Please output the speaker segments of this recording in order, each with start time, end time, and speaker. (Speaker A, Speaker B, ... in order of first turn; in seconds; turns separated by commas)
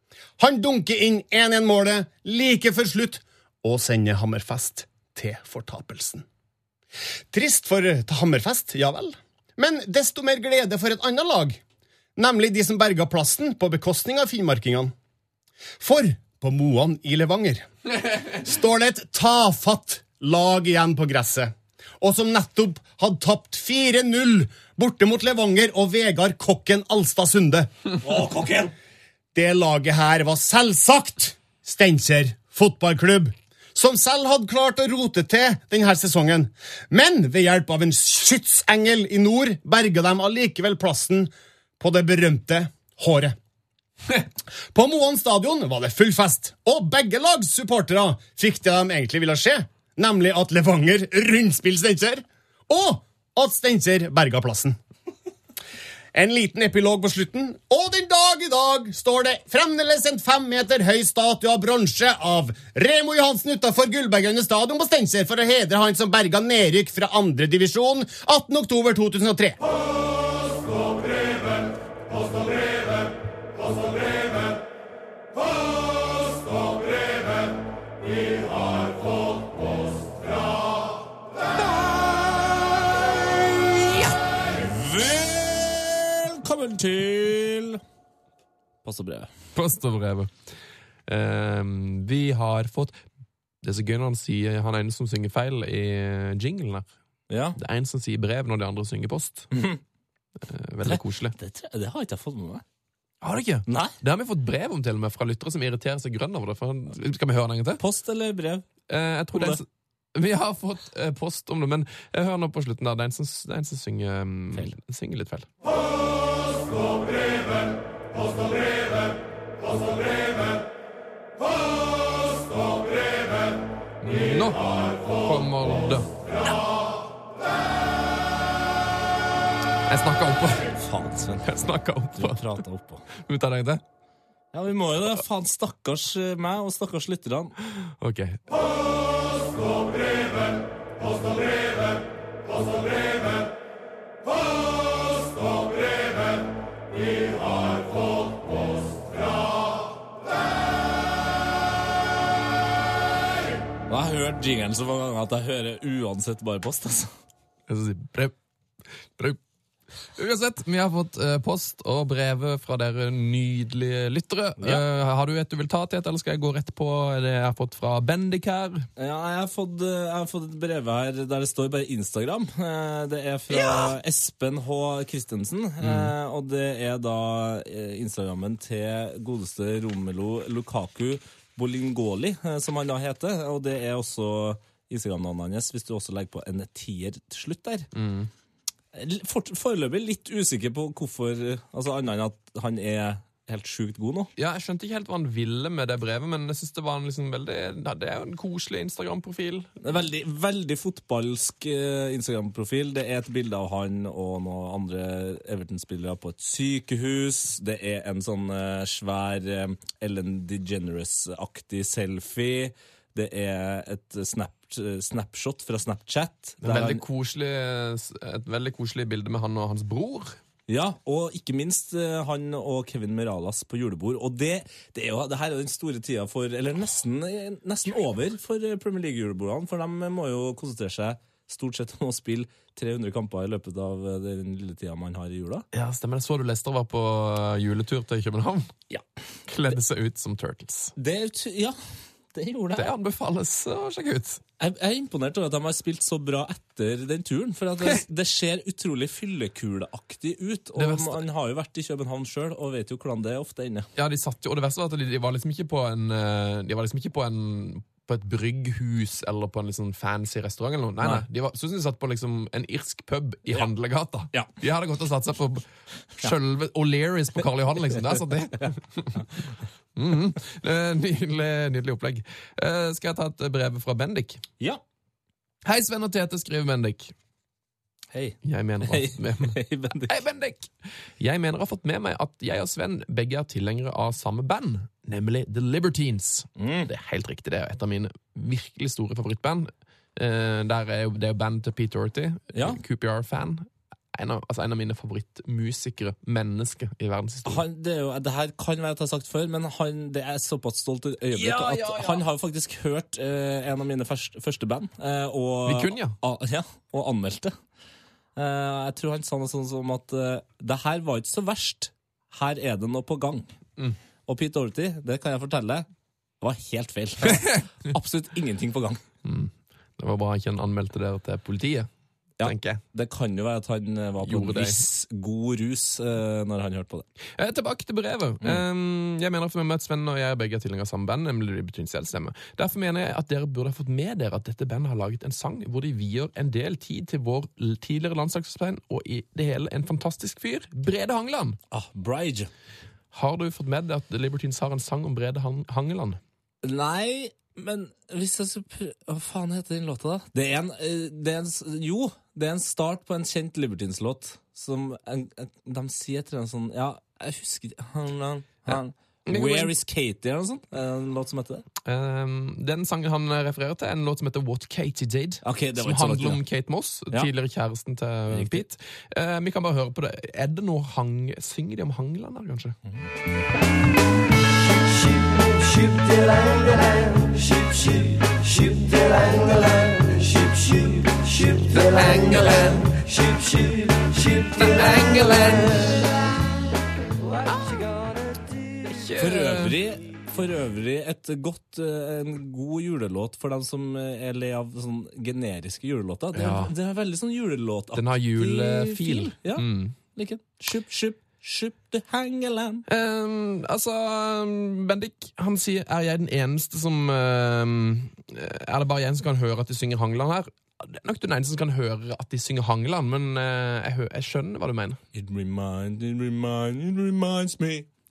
Speaker A: 0.4-6.2, Speaker A: 7.3-11.6, Speaker A: 12.2-14.9, Speaker A: 15.8-27.7, Speaker B: 28.0-28.7, Speaker A: 29.3-43.4, Speaker A: 44.7-54.8, Speaker A: 56.1-69.6, Speaker B: 81.6-87.8, Speaker B: 88.8-89.3, Speaker C: 89.5-90.3, Speaker C: 91.1-93.0, Speaker C: 93.6-96.9, Speaker B: 97.3-97.6, Speaker C: 97.6-99.5, Speaker B: 99.5-99.8, Speaker C: 100.4-101.3, Speaker B: 100.8-102.6, Speaker C: 103.2-107.8, Speaker B: 103.7-103.9, Speaker B: 107.8-108.7, Speaker C: 108.9-115.5, Speaker B: 109.3-109.6, Speaker C: 124.0-126.1, Speaker C: 129.9-130.8, Speaker B: 130.8-131.5, Speaker C: 131.4-132.5, Speaker B: 132.2-133.1, Speaker C: 133.2-133.8, Speaker B: 134.5-137.5, Speaker C: 138.0-138.4, Speaker B: 153.9-157.1, Speaker C: 157.7-158.3, Speaker C: 160.2-168.9, Speaker B: 169.0-187.9, Speaker C: 173.5-173.9, Speaker C: 175.8-176.1, Speaker C: 187.9-188.3, Speaker B: 188.9-194.3, Speaker C: 194.4-199.7, Speaker B: 199.8-217.0, Speaker C: 216.6-220.4, Speaker B: 220.7-235.7, Speaker C: 235.7-238.8, Speaker C: 239.5-240.9, Speaker B: 241.0-241.8, Speaker B: 242.3-242.9, Speaker C: 242.8-244.4, Speaker B: 244.6-253.9, Speaker C: 250.8-251.2, Speaker C: 254.0-265.7, Speaker C: 266.2-269.2, Speaker C: 270.0-274.4, Speaker C: 275.6-277.1, Speaker B: 278.1-280.2, Speaker C: 278.4-279.6, Speaker C: 280.1-297.6, Speaker B: 286.6-286.9, Speaker B: 292.5-292.8, Speaker B: 297.5-307.5, Speaker C: 301.3-302.2, Speaker C: 305.6-306.2, Speaker B: 308.4-313.5, Speaker B: 314.3-315.9, Speaker B: 316.4-319.0, Speaker C: 317.3-317.6, Speaker C: 319.2-321.9, Speaker B: 322.4-327.1, Speaker C: 322.4-322.8, Speaker C: 324.2-324.8, Speaker C: 327.4-341.6, Speaker B: 341.7-342.5, Speaker C: 343.1-346.2, Speaker B: 346.6-361.6, Speaker C: 359.3-359.7, Speaker C: 361.9-372.8, Speaker B: 365.4-366.4, Speaker B: 368.3-368.6, Speaker C: 381.7-382.9, Speaker C: 384.6-386.0, Speaker B: 384.6-385.4, Speaker C: 387.5-387.8, Speaker C: 388.9-389.8, Speaker B: 389.2-402.9, Speaker C: 396.3-396.7, Speaker C: 397.9-400.0, Speaker C: 402.9-415.0, Speaker B: 415.1-417.9